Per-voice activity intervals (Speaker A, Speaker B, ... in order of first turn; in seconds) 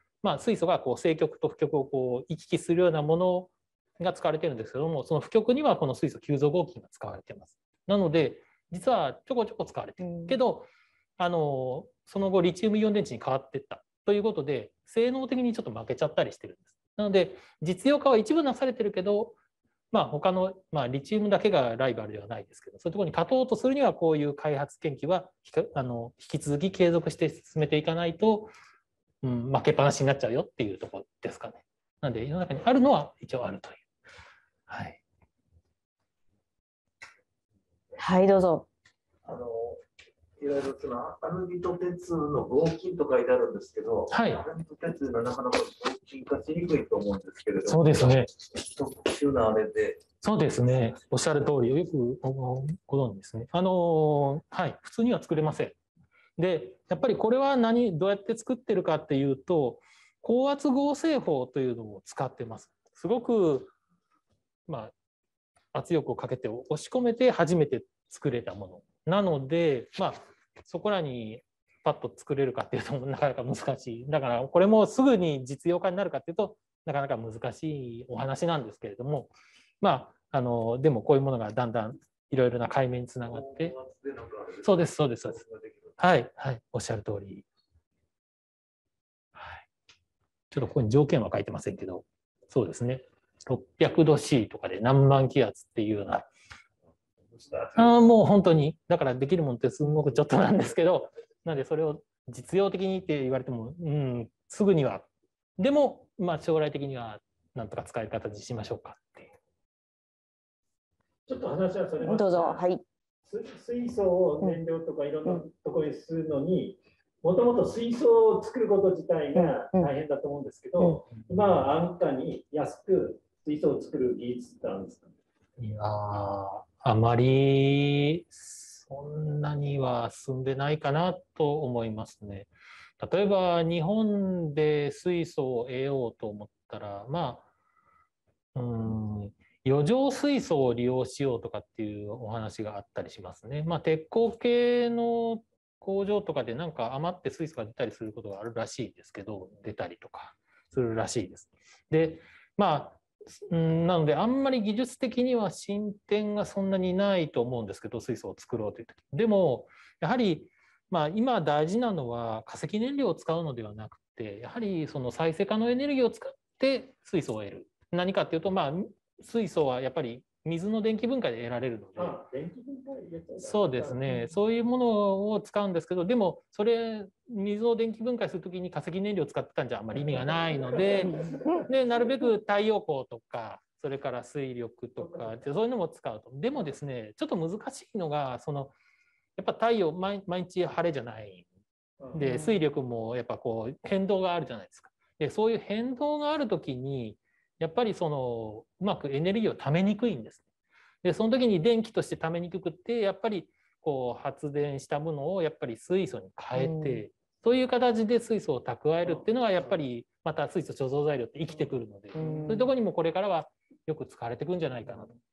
Speaker A: 0.2-10.7, 11.2-19.4, 19.9-28.5, 29.2-33.8, 34.7-35.0, 44.1-44.4, 47.6-48.3, 50.2-55.8, 56.4-63.7, 64.7-64.9, 65.7-83.8, 84.6-85.4, 86.0-87.4, 89.3-89.6, 90.5-96.3, 97.8-109.3, 121.2-121.6, 125.6-137.4, 138.5-172.2, 173.4-188.7, 189.4-191.5, 192.1-200.4, 201.0-215.1
Speaker B: 10.0-10.3, 38.0-38.7, 112.0-112.8, 119.3-119.9, 181.1-181.6, 192.2-192.5, 206.5-207.0, 212.1-212.7
Speaker C: 39.2-39.8, 40.4-50.0, 83.3-85.9, 97.3-98.0
Speaker D: 111.3-112.6, 113.2-125.1, 171.9-174.3, 180.7-181.7